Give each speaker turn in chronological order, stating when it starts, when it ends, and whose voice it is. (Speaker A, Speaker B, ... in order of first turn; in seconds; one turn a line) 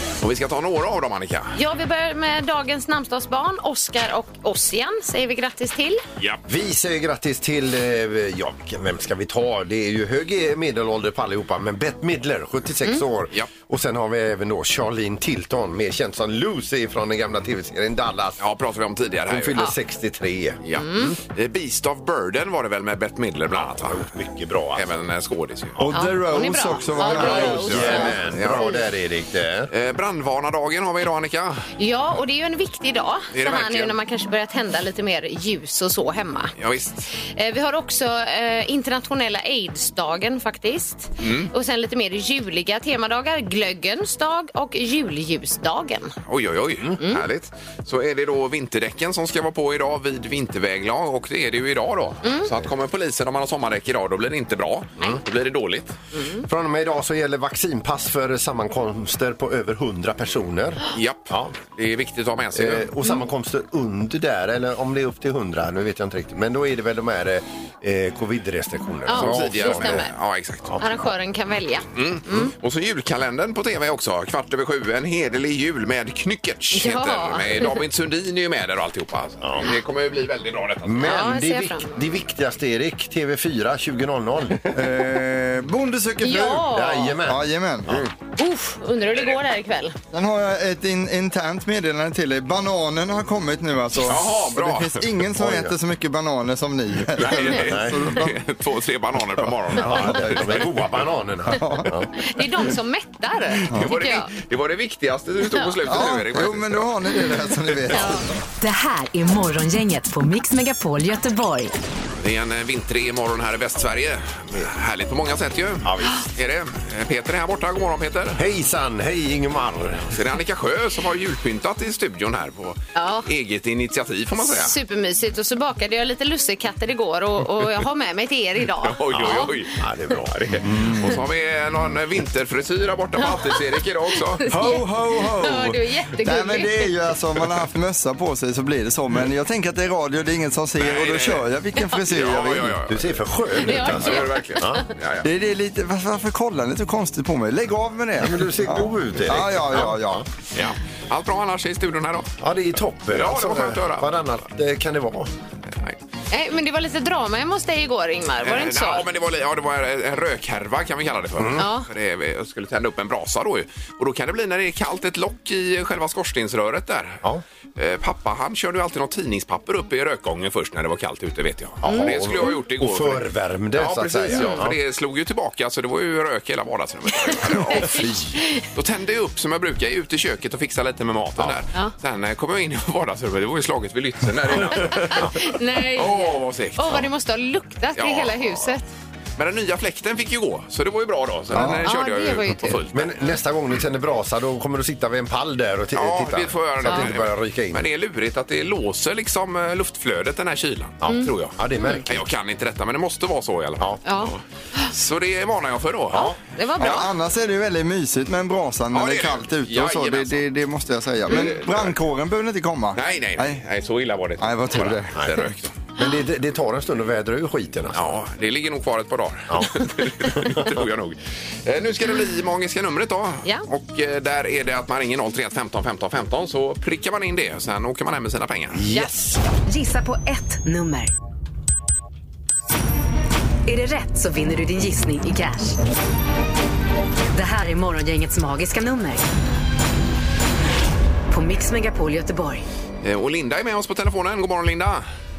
Speaker A: 0.2-1.6
Speaker B: 1.6-6.0
Speaker C: 6.5-18.4
Speaker A: 18.4-19.7
Speaker C: 19.3-20.6
Speaker A: 20.6-24.1
Speaker B: 20.7-21.1
Speaker C: 23.5-24.9
Speaker A: 24.7-25.8
Speaker D: 25.8-28.1
Speaker B: 25.9-28.8
Speaker C: 26.9-29.7
Speaker A: 27.5-28.8
Speaker A: 29.7-31.7
Speaker B: 31.8-36.5
Speaker A: 33.3-33.9
Speaker A: 36.6-37.1
Speaker B: 37.3-46.1
Speaker A: 41.2-41.5
Speaker A: 46.3-56.0
Speaker B: 52.2-52.5
Speaker B: 56.1-56.4
Speaker C: 56.4-61.5
Speaker A: 60.9-62.9
Speaker C: 62.5-70.1
Speaker B: 69.0-70.1
Speaker A: 69.1-70.8
Speaker B: 70.8-72.5
Speaker A: 71.9-81.3
Speaker B: 76.7-77.7
Speaker C: 79.4-79.7
Speaker C: 80.8-84.8
Speaker B: 81.0-81.9
Speaker D: 84.7-88.0
Speaker B: 86.2-87.2
Speaker C: 86.7-88.1
Speaker B: 88.4-90.0
Speaker D: 90.1-98.4
Speaker A: 94.0-95.0
Speaker C: 95.3-95.7
Speaker A: 97.1-100.6
Speaker C: 97.7-98.0
Speaker C: 99.7-102.1
Speaker D: 100.0-100.6
Speaker D: 101.5-101.9
Speaker B: 102.1-104.3
Speaker A: 103.6-106.9
Speaker D: 105.8-108.2
Speaker B: 107.9-108.2
Speaker E: 108.6-111.7
Speaker A: 112.2-118.4
Speaker C: 115.8-116.2
Speaker C: 118.4-120.1
Speaker A: 120.1-124.7
Speaker B: 122.9-123.3
Speaker B: 124.4-129.6
Speaker A: 128.8-134.4
Speaker C: 129.1-131.2
Speaker B: 133.2-133.6
Speaker B: 134.1-136.9
Speaker D: 134.5-142.8
Speaker A: 140.8-141.4
Speaker A: 142.0-143.1
Speaker C: 142.9-144.8
Speaker B: 143.6-144.8
Speaker A: 143.6-145.3
Speaker D: 145.2-150.2
Speaker C: 148.2-150.2
Speaker A: 150.5-152.3
Speaker C: 152.4-155.3
Speaker A: 153.1-154.1
Speaker A: 155.7-156.0
Speaker B: 156.3-159.1
Speaker A: 158.4-167.2
Speaker C: 161.4-161.7
Speaker B: 161.6-161.9
Speaker A: 167.8-187.1
Speaker C: 171.8-174.8
Speaker B: 171.8-172.1
Speaker B: 174.3-174.7
Speaker B: 177.2-178.6
Speaker C: 177.6-178.3
Speaker B: 184.8-188.9
Speaker A: 187.9-188.7
Speaker A: 189.4-193.2
Speaker D: 191.5-191.8
Speaker B: 191.6-192.8
Speaker C: 192.9-197.8
Speaker A: 195.9-204.4
Speaker C: 201.0-202.2
Speaker B: 204.0-204.9
Speaker A: 204.9-206.3
Speaker B: 206.1-207.1
Speaker D: 206.8-213.6
Speaker A: 208.9-210.4
Speaker A: 211.3-211.9
Speaker A: 212.9-215.7
Speaker D: 214.4-215.5
Speaker C: 215.9-218.0
Speaker A: 217.9-228.8
Speaker C: 219.5-220.7
Speaker C: 228.7-229.4
Speaker E: 229.7-231.1
Speaker E: 233.7-235.8
Speaker E: 237.3-239.2
Speaker E: 241.3-242.6
Speaker A: 243.0-245.1